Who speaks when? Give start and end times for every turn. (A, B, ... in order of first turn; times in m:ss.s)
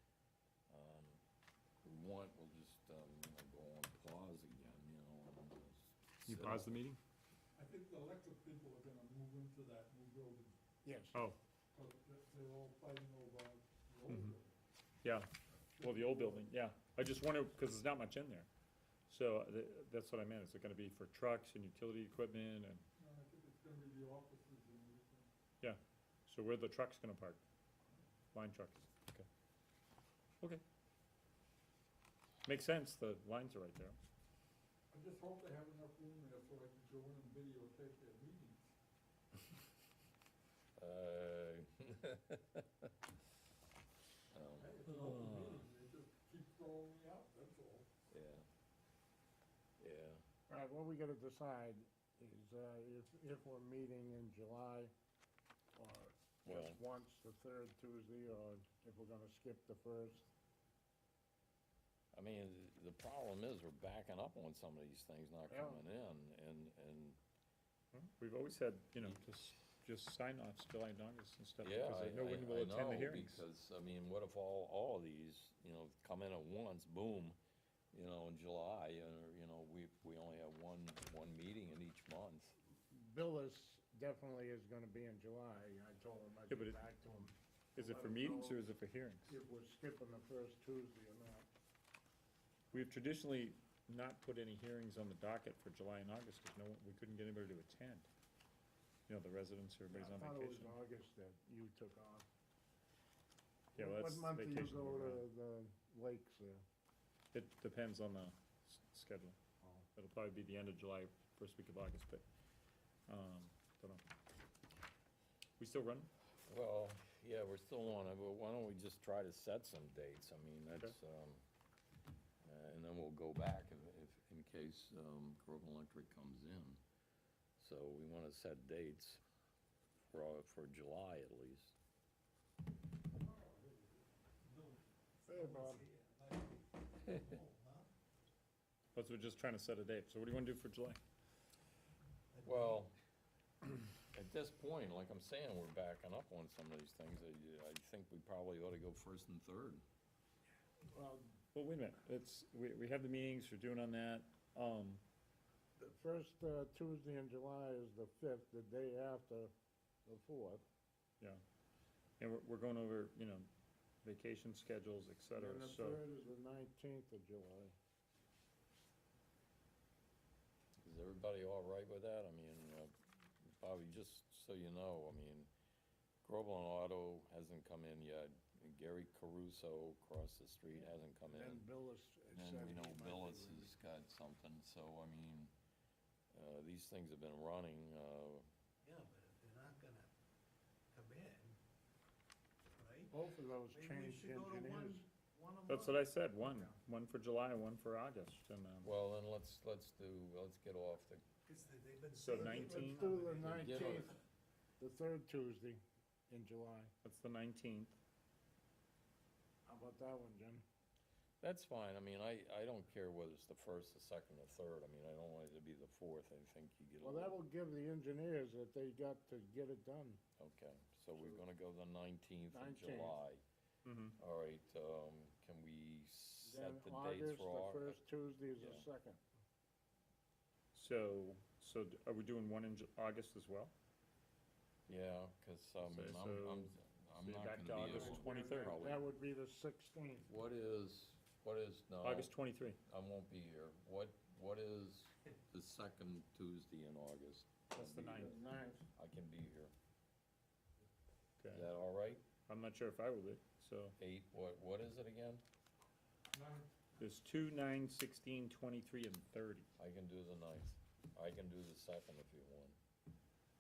0:00.7-0:01.2 A
0:01.8-0:06.8 A
0:06.2-0:07.0 B
0:07.6-0:10.6 C
0:10.8-0:11.2 D
0:11.7-0:14.6 C
0:14.1-0:14.4 B
0:15.0-0:18.5 B
0:15.8-0:16.5 C
0:19.1-0:22.8 B
0:23.0-0:25.3 C
0:25.6-0:27.4 B
0:28.3-0:29.3 B
0:32.4-0:34.0 B
0:34.9-0:38.7 C
0:40.8-0:42.9 A
0:44.3-0:45.5 A
0:44.6-0:47.9 C
0:48.1-0:48.5 A
0:49.8-0:50.2 A
0:50.5-0:54.9 D
0:55.8-1:00.3 D
0:56.4-0:56.8 A
1:02.1-1:07.2 A
1:05.5-1:05.8 D
1:07.9-1:13.4 B
1:11.6-1:17.4 A
1:17.9-1:22.5 A
1:22.9-1:28.6 D
1:26.5-1:26.8 B
1:27.8-1:29.4 B
1:29.3-1:31.5 D
1:32.7-1:38.1 B
1:39.1-1:40.7 B
1:39.9-1:42.3 D
1:43.8-1:45.2 B
1:43.8-1:46.6 D
1:47.3-1:49.4 B
1:49.6-1:49.9 D
1:50.0-1:52.2 B
1:53.1-1:54.0 B
1:55.6-1:56.1 B
1:56.4-2:01.4 A
2:02.4-2:06.8 A
2:07.6-2:09.2 A
2:10.1-2:11.8 A
2:13.1-2:14.8 C
2:15.3-2:15.8 D
2:15.3-2:17.9 E
2:19.0-2:21.0 B
2:22.3-2:22.9 E
2:22.4-2:23.0 A
2:24.1-2:29.8 A
2:30.9-2:31.3 D
2:31.5-2:35.0 B
2:35.8-2:39.5 D
2:40.1-2:40.6 D
2:42.2-2:43.5 B
2:44.0-2:46.0 B
2:45.4-2:47.8 D
2:50.8-2:52.9 A
2:53.4-2:55.5 A
2:56.2-3:01.6 A
3:01.3-3:03.7 D
3:02.3-3:05.5 A
3:06.3-3:08.5 A
3:08.8-3:10.1 E
3:10.9-3:11.6 E
3:12.7-3:13.1 E
3:13.1-3:15.0 D
3:13.7-3:16.7 E
3:15.7-3:18.9 B
3:18.8-3:21.2 A
3:21.5-3:24.0 E
3:22.2-3:23.1 B
3:22.3-3:24.2 D
3:23.4-3:24.2 A
3:24.8-3:26.9 D
3:27.0-3:28.0 B
3:29.7-3:30.6 D
3:31.4-3:37.4 A
3:37.0-3:40.2 D
3:40.4-3:43.4 A
3:42.5-3:43.2 D
3:43.8-3:44.2 B
3:44.2-3:48.0 A
3:46.4-3:49.2 D
3:48.6-3:48.9 A
3:50.7-3:53.7 B
3:54.9-3:59.0 A
3:55.8-3:59.0 B
3:57.8-4:00.3 D
4:00.3-4:02.3 A
4:02.0-4:02.8 B
4:02.9-4:08.4 A
4:07.7-4:08.4 B
4:07.8-4:08.9 D
4:09.0-4:09.7 A
4:11.4-4:11.7 B
4:11.5-4:12.2 A
4:12.5-4:14.0 B
4:14.0-4:15.4 A
4:16.3-4:16.8 C
4:17.0-4:19.7 B
4:19.8-4:22.8 A